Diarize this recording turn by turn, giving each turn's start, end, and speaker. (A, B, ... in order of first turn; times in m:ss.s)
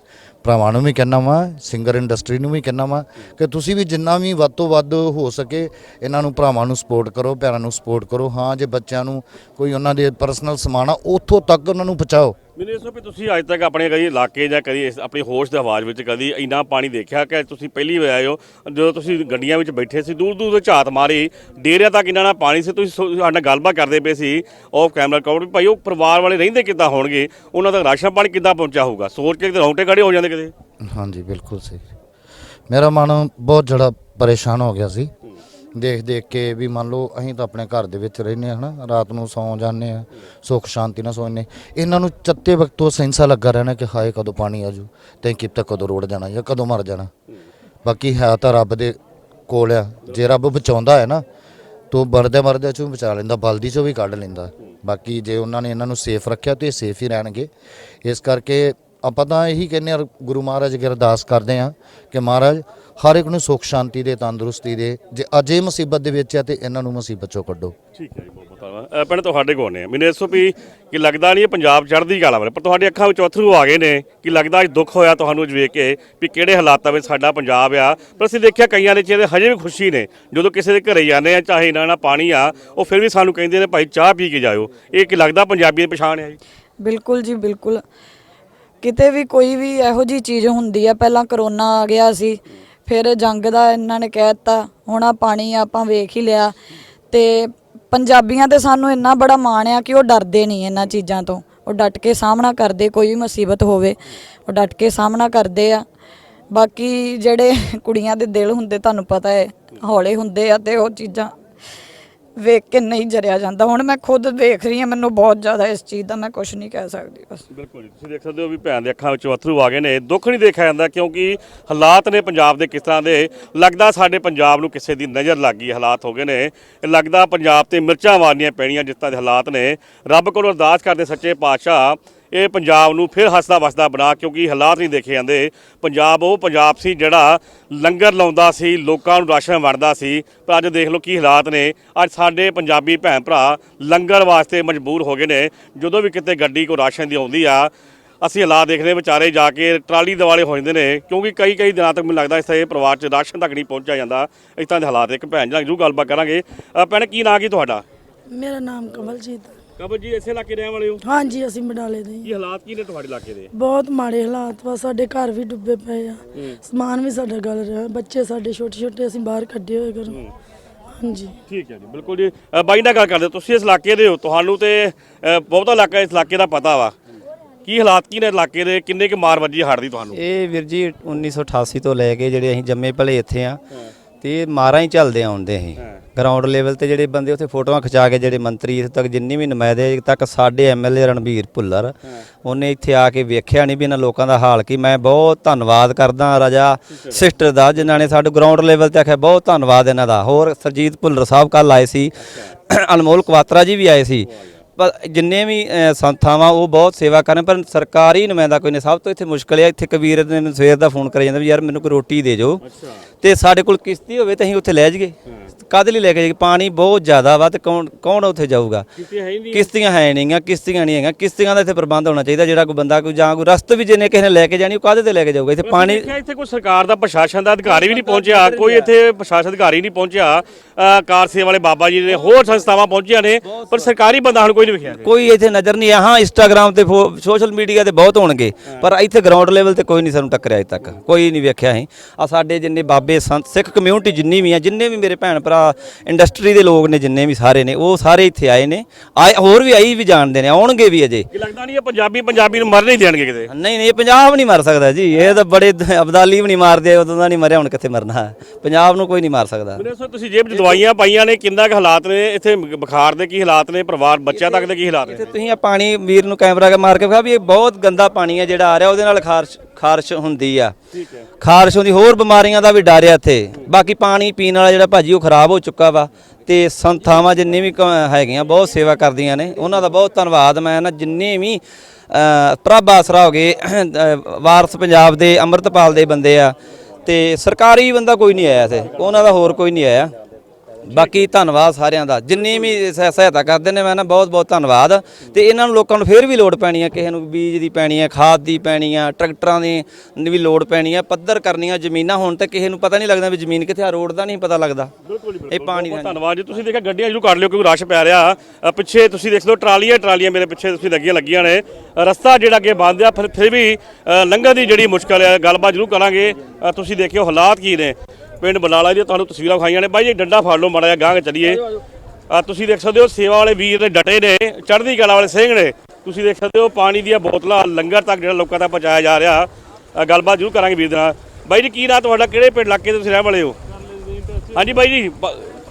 0:00.4-0:12.3 A
0:12.6-0:30.5 B
0:30.8-0:31.8 A
0:32.7-0:35.1 A
0:35.8-0:47.1 A
0:47.8-0:49.0 A
0:49.5-0:51.2 A
0:51.9-0:57.5 A
0:58.0-1:07.7 A
1:08.0-1:26.4 B
1:26.8-1:27.8 C
1:28.8-1:36.5 C
1:37.1-1:45.8 C
1:46.5-1:51.3 C
1:52.4-1:57.4 C
1:57.5-2:27.7 B
2:28.2-2:37.8 B
2:38.3-2:39.5 D
2:39.8-2:41.0 B
2:41.0-2:42.3 D
2:42.2-2:43.5 B
2:43.5-2:50.2 D
2:51.0-2:51.3 D
2:51.5-2:56.9 B
2:57.6-3:00.2 B
3:00.1-3:03.6 E
3:04.2-3:22.1 E
3:16.9-3:18.1 B
3:22.7-3:32.6 E
3:24.2-3:24.5 B
3:32.6-3:33.0 B
3:33.2-3:35.1 E
3:35.6-3:38.8 E
3:39.0-3:39.7 B
3:39.5-3:46.0 E
3:45.6-3:55.0 B
3:55.0-4:11.2 E
4:11.3-4:13.5 B
4:13.5-4:19.8 E
4:19.8-4:25.3 B
4:24.4-4:30.7 E
4:30.9-4:31.2 B
4:31.4-4:50.1 E
4:50.9-5:04.9 E
5:05.0-5:21.6 B
5:05.5-5:06.2 E
5:22.3-5:33.6 B
5:34.5-5:35.6 B